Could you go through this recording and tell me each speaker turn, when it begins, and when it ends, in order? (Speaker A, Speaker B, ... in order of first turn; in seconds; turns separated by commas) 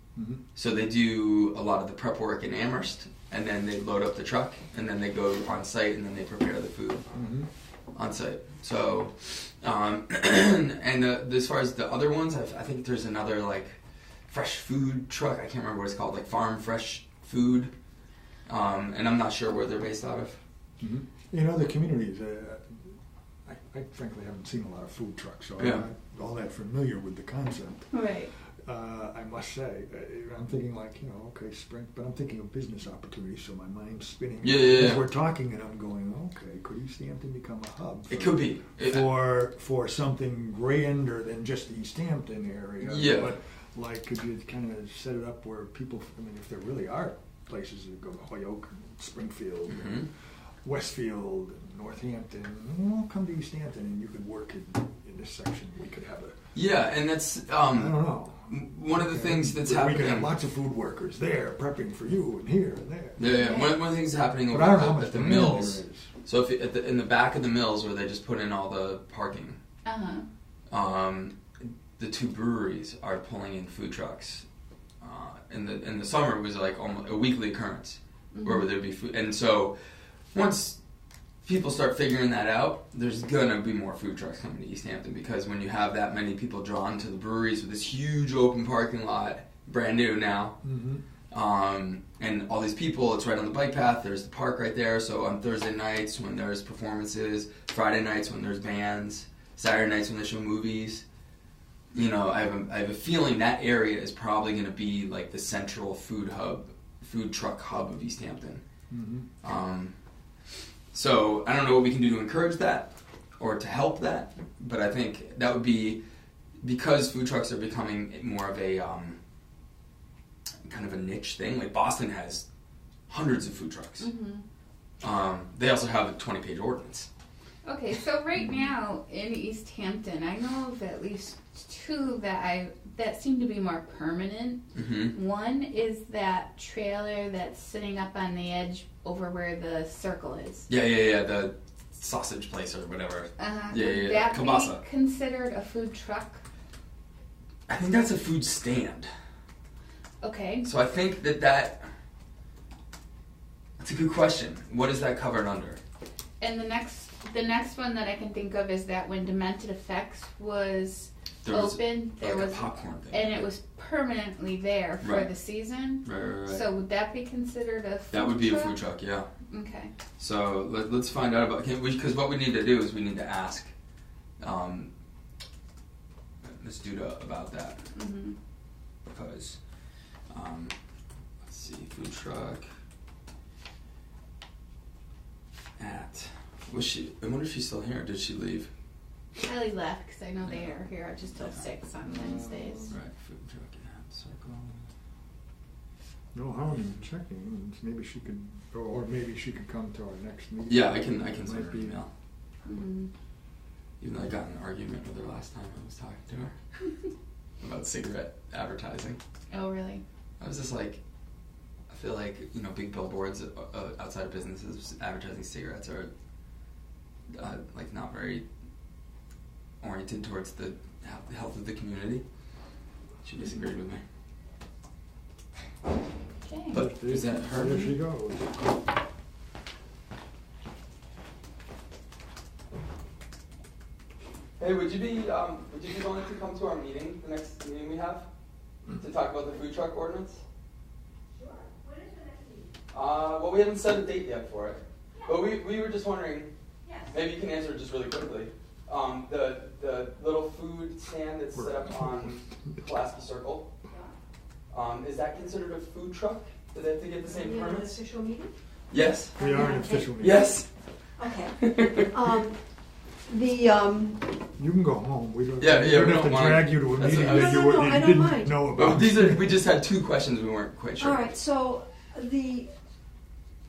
Speaker A: 0.1-0.4, Speaker B: 0.5-7.0, Speaker A: 7.1-7.5, Speaker B: 7.9-13.8, Speaker B: 14.3-17.7, Speaker B: 18.5-20.4, Speaker A: 20.8-27.9, Speaker B: 25.6-25.8, Speaker C: 27.9-28.3, Speaker A: 28.6-50.1, Speaker B: 34.4-35.0, Speaker B: 38.1-39.1, Speaker B: 42.8-43.3, Speaker B: 49.7-50.1, Speaker A: 50.6-56.4, Speaker B: 56.5-60.3, Speaker A: 57.7-63.2, Speaker B: 63.2-69.6, Speaker C: 63.2-63.8, Speaker A: 64.5-66.1, Speaker C: 69.8-70.3, Speaker B: 70.7-71.4, Speaker B: 72.0-74.4, Speaker B: 75.0-79.7, Speaker C: 78.3-78.7, Speaker B: 80.3-80.8, Speaker B: 81.4-90.6, Speaker A: 90.6-91.0, Speaker B: 91.3-101.0, Speaker B: 101.9-108.6, Speaker A: 108.9-109.3, Speaker B: 109.4-109.9, Speaker B: 110.9-116.0, Speaker B: 116.6-119.2, Speaker B: 120.6-122.5, Speaker B: 123.1-124.1, Speaker C: 124.0-124.4, Speaker B: 125.0-127.1, Speaker C: 127.6-140.7, Speaker B: 134.7-135.2, Speaker B: 140.7-144.8, Speaker C: 143.4-146.4, Speaker B: 147.7-149.1, Speaker C: 150.2-150.7, Speaker B: 150.6-151.8, Speaker B: 153.8-155.8, Speaker C: 156.4-168.8, Speaker B: 161.4-163.4, Speaker B: 165.0-165.3, Speaker B: 166.0-166.6, Speaker B: 168.1-169.3, Speaker C: 169.5-169.9, Speaker B: 170.2-173.7, Speaker B: 174.4-174.9, Speaker B: 176.6-177.8, Speaker C: 177.9-178.3, Speaker B: 179.1-179.6, Speaker B: 180.3-180.7, Speaker B: 181.4-182.7, Speaker B: 185.8-188.7, Speaker C: 189.3-192.9, Speaker B: 190.4-190.7, Speaker B: 191.4-191.6, Speaker A: 192.1-192.9, Speaker B: 192.9-194.8, Speaker A: 196.3-202.0, Speaker B: 200.7-202.1, Speaker C: 202.6-203.1, Speaker B: 204.0-206.5, Speaker B: 207.6-209.2, Speaker C: 209.5-210.0, Speaker B: 210.4-211.0, Speaker B: 211.9-216.1, Speaker B: 217.3-218.4, Speaker B: 219.8-222.2, Speaker B: 223.2-224.0, Speaker C: 226.4-226.8, Speaker B: 226.7-227.9, Speaker A: 226.7-228.7, Speaker B: 234.6-238.3, Speaker B: 238.9-240.4, Speaker D: 241.3-242.7, Speaker B: 242.9-246.5, Speaker D: 246.8-247.2, Speaker B: 247.1-253.7, Speaker A: 251.5-252.8, Speaker D: 253.9-254.1, Speaker B: 254.7-257.9, Speaker D: 257.2-258.5, Speaker B: 258.9-259.3, Speaker D: 259.4-260.5, Speaker A: 259.4-260.5, Speaker B: 260.2-260.7, Speaker D: 261.2-262.6, Speaker B: 261.6-262.1, Speaker D: 263.3-264.3, Speaker A: 264.6-269.5, Speaker B: 265.6-267.8, Speaker D: 267.1-268.6, Speaker B: 268.7-271.3, Speaker D: 271.0-272.7